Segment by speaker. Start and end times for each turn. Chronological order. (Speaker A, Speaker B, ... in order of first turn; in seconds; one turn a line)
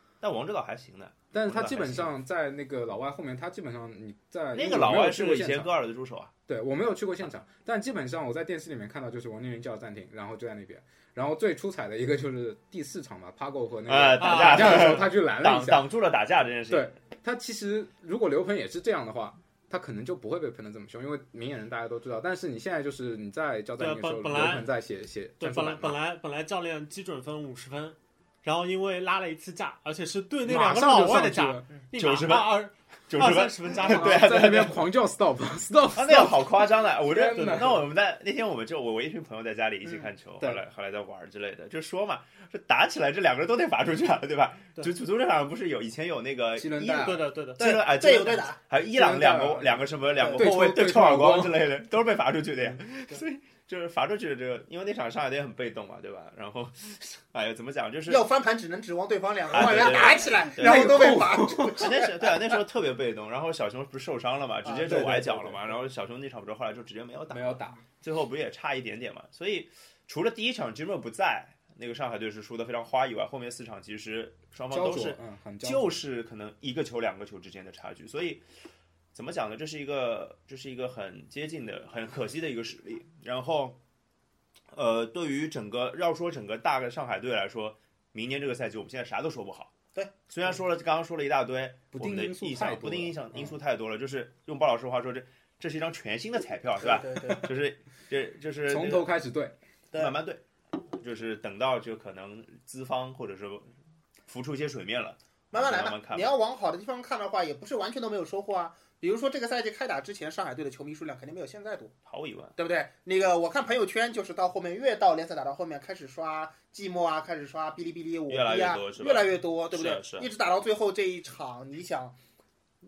Speaker A: 0.2-2.1
Speaker B: 1.3-5.7
Speaker A: 4.5-6.3
Speaker B: 6.5-15.9
Speaker A: 13.9-17.0
Speaker C: 14.2-15.0
Speaker B: 16.7-26.0
Speaker C: 23.8-24.7
Speaker C: 25.4-34.4
Speaker B: 30.5-31.7
Speaker A: 31.9-32.5
Speaker A: 33.1-34.8
Speaker B: 33.8-37.8
Speaker A: 35.9-58.2
Speaker C: 37.3-37.8
Speaker B: 46.6-47.2
Speaker C: 46.9-47.6
Speaker D: 47.6-48.6
Speaker B: 48.9-51.7
Speaker D: 50.2-50.5
Speaker D: 58.1-62.4
Speaker A: 59.5-78.4
Speaker B: 59.6-61.9
Speaker D: 64.7-65.2
Speaker B: 64.8-65.8
Speaker B: 67.3-67.8
Speaker B: 74.7-76.0
Speaker A: 79.1-83.8
Speaker A: 84.7-89.7
Speaker A: 90.3-99.1
Speaker B: 91.9-93.6
Speaker D: 96.8-97.5
Speaker B: 98.7-99.5
Speaker A: 100.0-100.4
Speaker A: 100.9-103.7
Speaker A: 104.3-106.3
Speaker D: 105.5-111.9
Speaker A: 112.1-112.5
Speaker D: 112.6-122.2
Speaker A: 118.3-120.3